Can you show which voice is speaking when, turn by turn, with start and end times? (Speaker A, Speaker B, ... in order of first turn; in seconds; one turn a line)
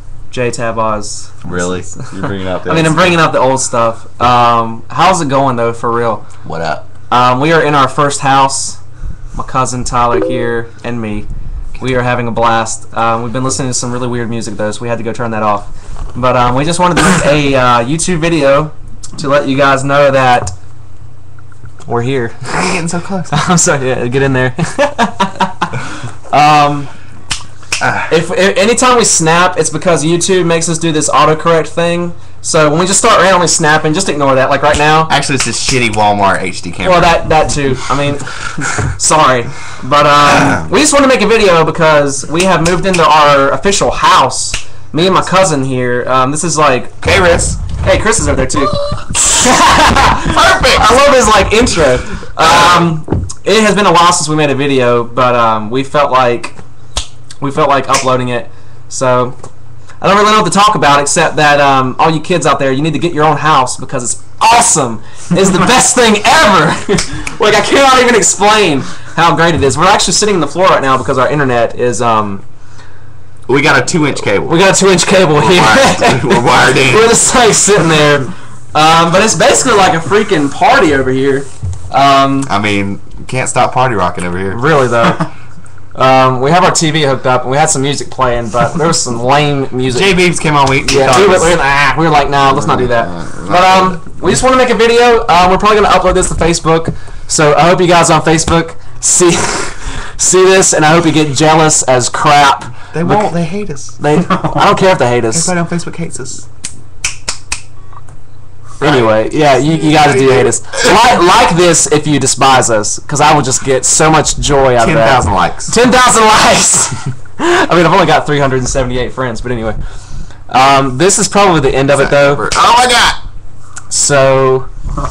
Speaker A: 0.3-6.3
Speaker B: 1.4-3.2
Speaker B: 6.4-6.9
Speaker A: 7.1-8.8
Speaker A: 9.3-11.3
Speaker A: 11.8-20.6
Speaker A: 21.8-22.8
Speaker B: 22.5-23.4
Speaker A: 23.3-26.9
Speaker B: 27.8-28.1
Speaker A: 28.1-35.1
Speaker B: 35.1-37.3
Speaker A: 36.8-46.9
Speaker B: 40.2-40.7
Speaker B: 47.0-47.6
Speaker A: 47.8-56.6
Speaker B: 50.2-51.0
Speaker A: 57.4-59.4
Speaker A: 60.0-72.4
Speaker B: 73.5-74.6
Speaker A: 74.4-82.5
Speaker B: 75.3-77.1
Speaker B: 82.4-84.6
Speaker A: 84.5-85.3
Speaker A: 86.0-90.2
Speaker B: 89.9-91.6
Speaker A: 90.8-103.4
Speaker B: 92.5-94.0
Speaker B: 102.9-104.0
Speaker A: 104.0-105.5
Speaker B: 105.3-106.5
Speaker A: 108.8-119.8
Speaker B: 108.8-109.3
Speaker B: 114.8-115.7
Speaker A: 120.5-122.5
Speaker B: 121.9-123.2
Speaker A: 123.9-124.7